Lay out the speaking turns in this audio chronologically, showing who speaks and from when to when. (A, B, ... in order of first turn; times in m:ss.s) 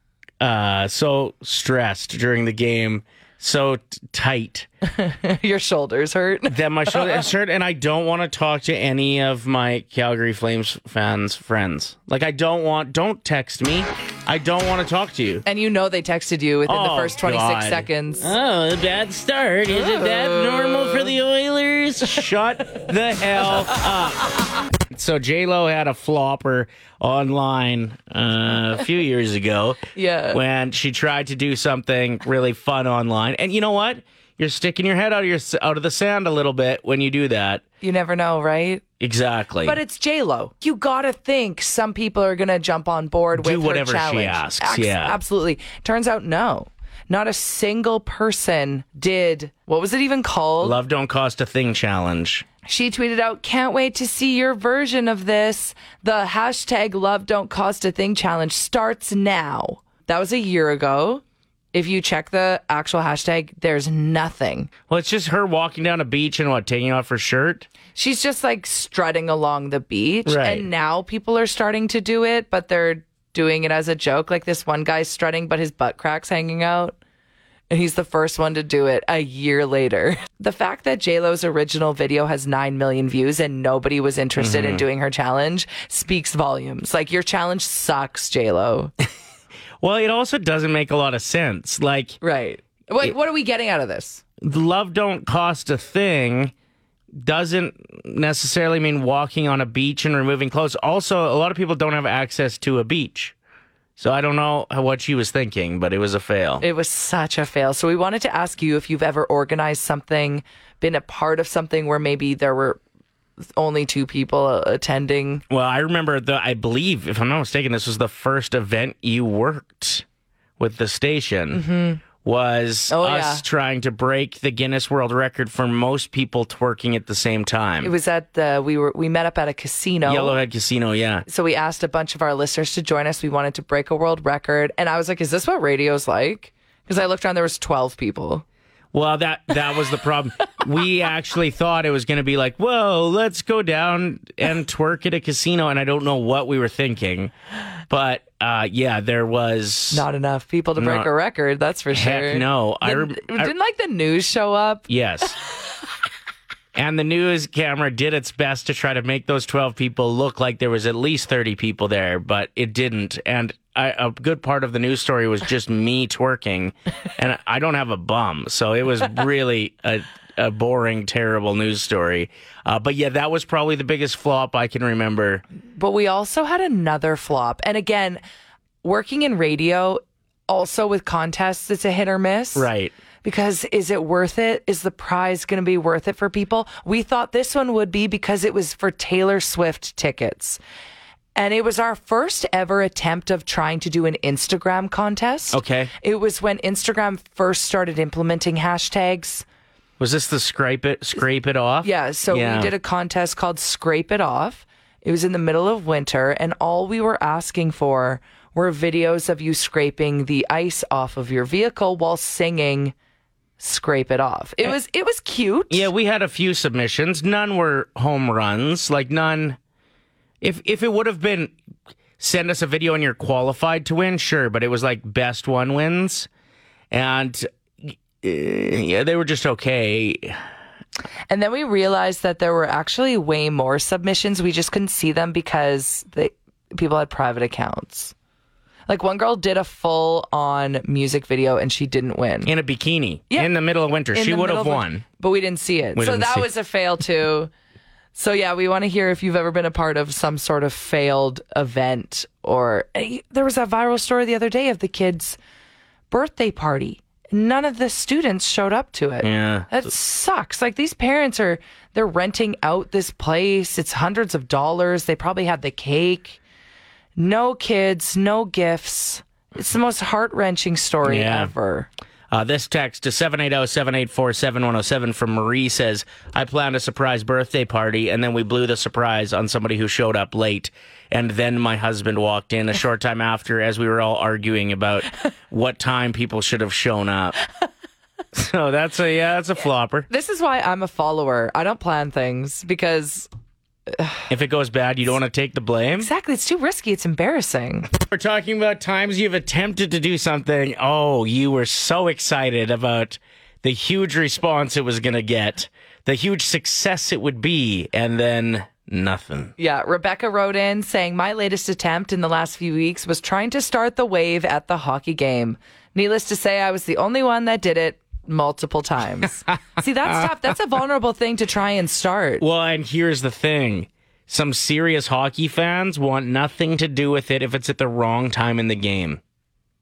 0:00.4-0:04.7 A
0:04.8-0:07.3 B
0:06.5-0:15.4 A
0:15.5-0:18.3 B
0:16.7-0:37.6 A
0:19.9-0:21.1 B
0:30.0-0:30.4 B
0:37.8-0:38.8 B
0:39.0-0:39.8 A
0:39.6-0:50.8 B
0:43.3-0:45.2 A
0:50.6-0:52.5 A
0:52.6-1:04.7 B
1:04.9-1:07.7 A
1:08.0-1:17.0 B
1:10.3-1:10.7 A
1:17.7-1:28.9 B
1:24.4-1:24.8 A
1:29.8-1:32.2 A
1:32.2-1:34.2 B
1:34.4-1:36.5 A
1:37.2-1:43.4 A
1:44.0-1:46.6 A
1:46.6-1:52.8 B
1:53.6-1:55.4 B
1:55.5-2:00.0 A
2:00.6-2:01.6 A
2:01.5-2:02.0 B
2:02.2-2:07.9 A
2:02.9-2:03.4 B
2:07.8-2:10.4 B
2:10.1-2:11.3 A
2:11.3-2:18.4 B
2:18.9-2:27.3 A
2:27.9-2:30.0 A
2:29.9-2:34.9 B
2:30.8-2:31.1 A
2:31.9-2:33.5 A
2:34.9-2:35.4 A
2:36.8-2:55.4 A
2:55.8-2:58.2 B
2:58.8-3:02.7 B
3:02.6-3:03.0 A
3:03.2-3:10.6 B
3:11.4-3:19.4 B
3:15.5-3:15.9 A
3:20.0-3:22.7 A
3:21.8-3:32.9 B
3:33.6-3:35.9 B
3:35.7-3:39.6 A
3:40.4-3:41.6 A
3:42.2-3:46.3 A
3:46.9-3:50.4 A
3:51.3-3:58.1 B
3:58.9-4:02.5 B
4:02.5-4:05.0 A
4:04.1-4:07.5 B
4:06.0-4:06.5 A
4:08.2-4:15.4 B
4:16.1-4:26.4 B
4:19.2-4:19.9 A
4:27.2-4:31.9 B
4:31.0-4:31.5 A
4:32.3-4:47.4 A
4:48.3-4:50.1 A
4:50.1-4:53.3 B
4:53.9-4:54.2 B
4:54.3-4:56.1 A
4:56.0-4:57.9 B
4:57.9-5:09.5 A
5:09.6-5:22.4 B
5:22.4-5:29.2 A